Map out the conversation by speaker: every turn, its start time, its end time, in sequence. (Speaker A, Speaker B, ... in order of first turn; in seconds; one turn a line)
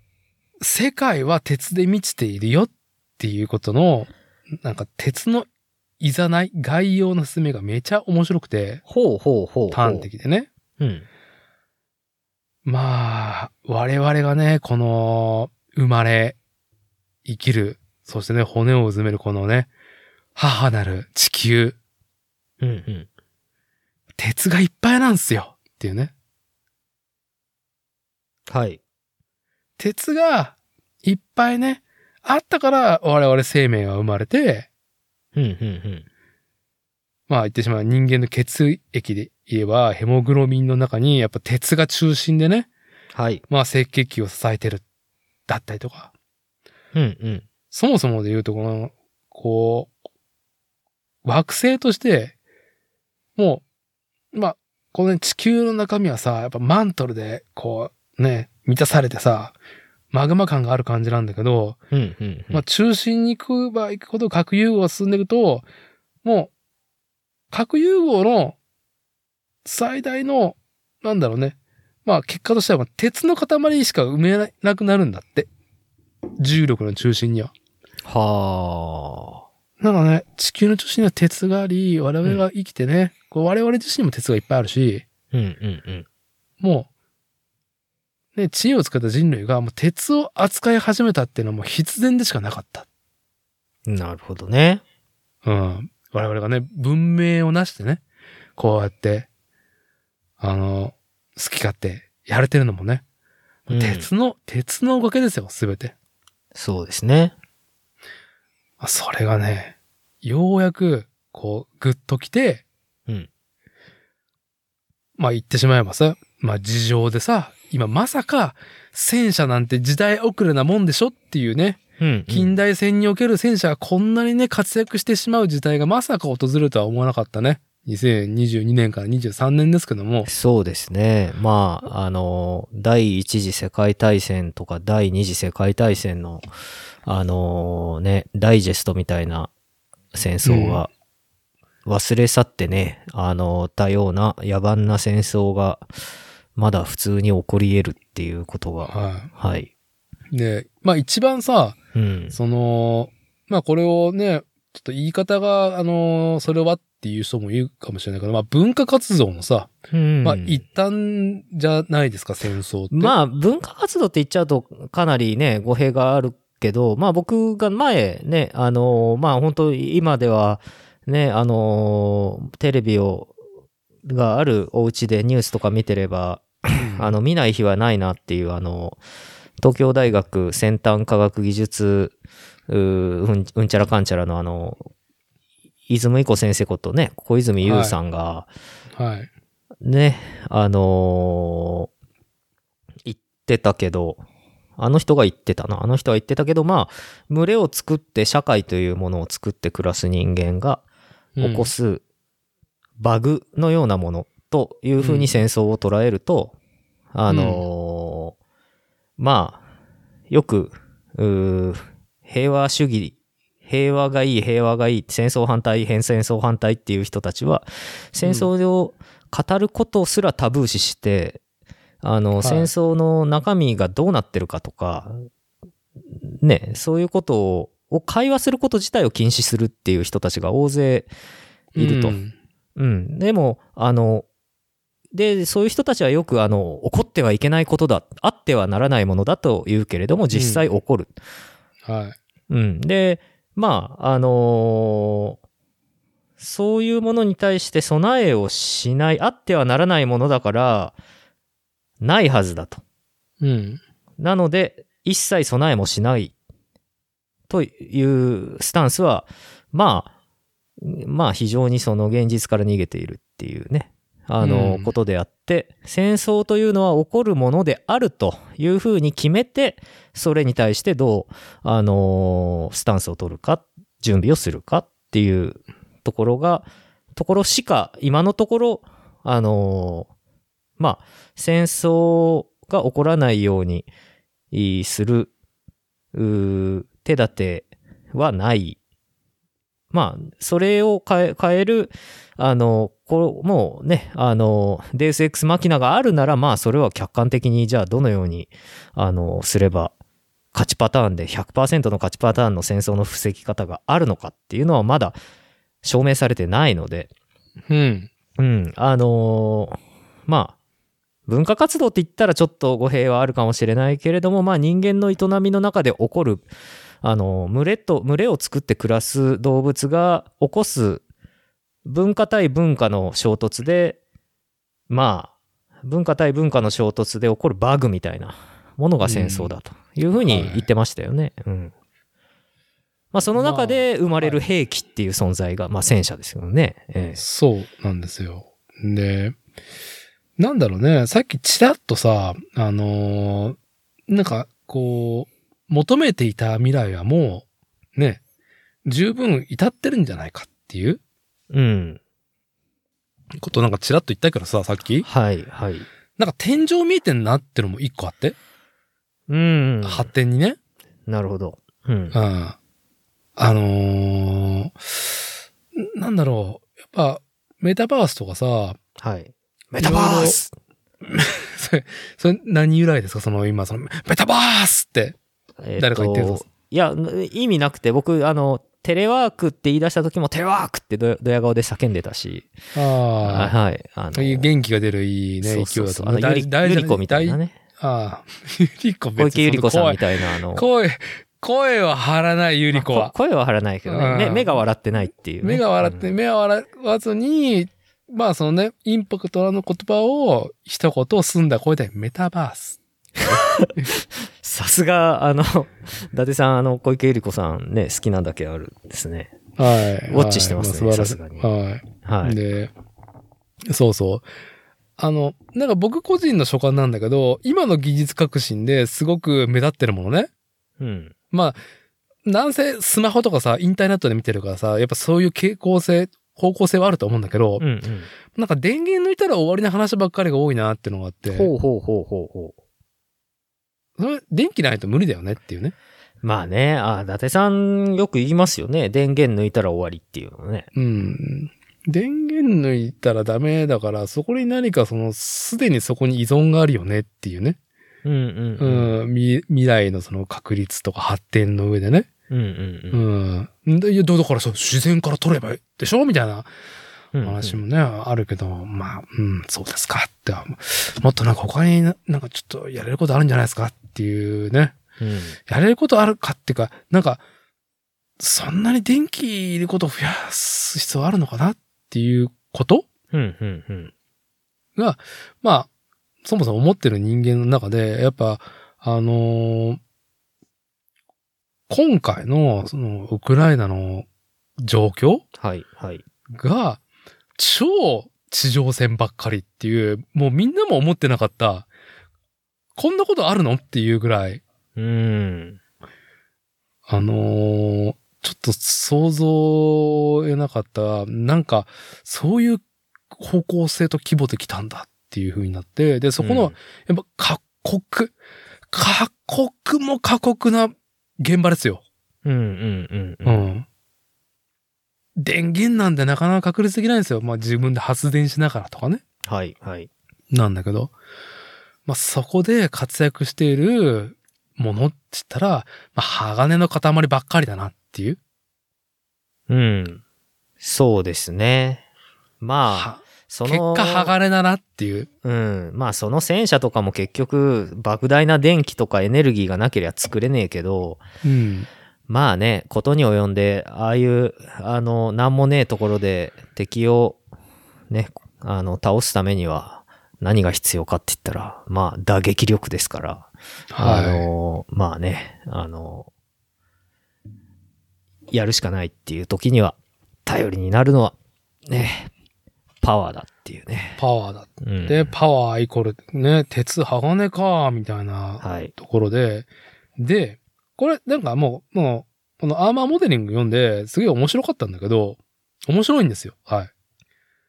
Speaker A: 0.6-5.5
Speaker A: 6.0-8.8
Speaker B: 8.9-10.1
Speaker A: 9.7-10.5
Speaker B: 10.8-11.1
Speaker A: 12.7-16.4
Speaker A: 17.2-19.7
Speaker A: 20.4-21.8
Speaker B: 22.6-23.1
Speaker A: 24.2-26.1
Speaker B: 28.5-28.8
Speaker A: 29.8-34.7
Speaker B: 35.4-36.0
Speaker A: 37.3-42.7
Speaker B: 43.1-43.4
Speaker A: 43.5-44.8
Speaker A: 45.5-46.1
Speaker B: 46.9-47.5
Speaker A: 47.7-49.9
Speaker A: 51.2-52.4
Speaker A: 53.4-53.6
Speaker A: 54.3-59.6
Speaker A: 60.1-61.8
Speaker B: 61.9-62.6
Speaker A: 62.5-65.7
Speaker A: 66.2-66.5
Speaker A: 67.5-68.6
Speaker A: 69.7-75.5
Speaker A: 76.4-77.5
Speaker B: 78.0-79.4
Speaker A: 79.8-85.0
Speaker B: 85.3-86.1
Speaker A: 86.6-86.9
Speaker A: 88.3-92.9
Speaker B: 93.9-94.8
Speaker A: 95.4-98.0
Speaker A: 98.6-99.3
Speaker A: 100.4-103.0
Speaker A: 103.7-106.0
Speaker B: 103.7-104.1
Speaker B: 106.5-107.3
Speaker A: 108.8-112.6
Speaker A: 115.2-130.3
Speaker B: 122.0-122.6
Speaker B: 130.3-136.4
Speaker B: 137.1-139.5
Speaker B: 140.1-140.9
Speaker A: 140.4-140.8
Speaker B: 141.9-145.9
Speaker B: 146.6-149.7
Speaker A: 148.9-149.3
Speaker A: 150.3-151.8
Speaker B: 151.9-152.4
Speaker A: 152.3-159.7
Speaker B: 159.9-160.6
Speaker A: 160.2-163.1
Speaker B: 162.9-173.3
Speaker B: 174.1-179.0
Speaker A: 176.7-177.2
Speaker B: 179.6-182.1
Speaker B: 182.7-184.9
Speaker B: 185.9-188.5
Speaker A: 187.6-188.0
Speaker A: 189.0-189.3
Speaker B: 189.8-191.9
Speaker B: 193.1-194.2
Speaker B: 194.8-200.8
Speaker A: 201.4-201.7
Speaker B: 201.4-202.0
Speaker B: 203.0-206.6
Speaker A: 205.0-205.3
Speaker B: 207.1-208.3
Speaker A: 207.3-207.6
Speaker B: 209.2-209.6
Speaker B: 210.3-221.4
Speaker A: 218.2-218.5
Speaker B: 222.0-225.2
Speaker A: 222.4-222.7
Speaker B: 226.3-231.1
Speaker A: 231.7-232.3
Speaker B: 231.8-232.2
Speaker B: 232.8-234.3
Speaker B: 235.1-241.1
Speaker A: 240.3-240.6
Speaker A: 241.8-242.2
Speaker B: 242.5-245.4
Speaker B: 246.4-250.9
Speaker B: 252.0-252.8
Speaker A: 253.4-253.8
Speaker B: 254.2-256.3
Speaker B: 257.5-260.1
Speaker B: 260.8-280.1
Speaker A: 264.4-264.9
Speaker B: 280.8-283.9
Speaker B: 284.5-285.3
Speaker B: 286.1-288.8
Speaker B: 289.9-299.9
Speaker B: 300.5-305.2
Speaker B: 305.8-307.1
Speaker A: 307.7-308.1
Speaker B: 308.4-310.6
Speaker B: 311.3-316.5
Speaker B: 317.0-321.0
Speaker B: 321.9-324.0
Speaker B: 324.9-325.3
Speaker B: 325.8-331.7
Speaker A: 329.0-329.5
Speaker A: 330.2-330.7
Speaker B: 333.1-337.2
Speaker A: 333.4-334.4
Speaker A: 337.2-339.4
Speaker A: 340.4-343.6
Speaker A: 344.1-347.4
Speaker A: 348.0-348.2
Speaker A: 348.9-351.0
Speaker B: 351.5-352.0
Speaker A: 353.4-355.1
Speaker B: 355.0-355.9
Speaker A: 356.2-358.4
Speaker B: 359.3-360.1
Speaker A: 359.8-360.6
Speaker B: 361.1-362.2
Speaker A: 362.1-362.6
Speaker A: 363.4-364.8
Speaker A: 365.8-368.8
Speaker B: 369.0-370.5
Speaker A: 369.8-370.4
Speaker A: 371.1-375.2
Speaker B: 375.6-382.5
Speaker A: 375.8-376.5
Speaker A: 382.8-383.5
Speaker B: 383.2-384.5
Speaker A: 384.1-393.1
Speaker B: 385.4-387.6
Speaker B: 389.2-390.7
Speaker B: 392.7-396.1
Speaker A: 393.9-394.6
Speaker A: 395.4-402.8
Speaker B: 403.2-409.4
Speaker A: 409.6-412.7
Speaker B: 410.1-411.5
Speaker B: 412.1-412.4
Speaker A: 413.7-414.2
Speaker A: 415.0-420.3
Speaker B: 420.8-421.1
Speaker A: 421.3-421.6
Speaker A: 422.3-427.6
Speaker B: 427.6-428.1
Speaker A: 428.3-431.5
Speaker B: 431.3-432.5
Speaker A: 434.0-435.7
Speaker B: 436.2-440.7
Speaker A: 440.8-447.6
Speaker B: 448.0-448.9
Speaker A: 448.6-452.1
Speaker B: 452.3-453.1
Speaker A: 452.9-456.5
Speaker B: 457.1-457.6
Speaker A: 457.2-464.8
Speaker B: 465.0-465.4
Speaker A: 465.5-467.2
Speaker A: 468.2-472.9
Speaker B: 473.1-473.9
Speaker A: 474.8-475.7
Speaker A: 476.2-479.8
Speaker A: 481.7-484.1
Speaker A: 484.6-485.2
Speaker B: 485.4-486.0
Speaker A: 486.3-486.8
Speaker A: 487.4-491.7
Speaker A: 492.8-494.4
Speaker B: 494.8-495.6
Speaker A: 496.9-508.1
Speaker B: 506.2-506.6
Speaker A: 508.7-511.8
Speaker B: 512.2-513.5
Speaker A: 513.2-513.7
Speaker A: 515.2-519.0
Speaker B: 519.3-519.9
Speaker A: 520.3-520.9
Speaker A: 521.9-528.2
Speaker B: 529.5-530.0
Speaker B: 530.6-531.8
Speaker B: 532.4-534.1
Speaker A: 532.7-535.1
Speaker B: 535.2-541.0
Speaker A: 541.2-541.7
Speaker B: 542.1-547.2
Speaker B: 547.9-553.3
Speaker A: 553.7-554.3
Speaker B: 553.8-556.1
Speaker B: 558.3-561.2
Speaker B: 561.7-562.1
Speaker B: 562.8-564.0
Speaker A: 564.0-576.7
Speaker B: 564.6-565.1
Speaker B: 568.4-568.7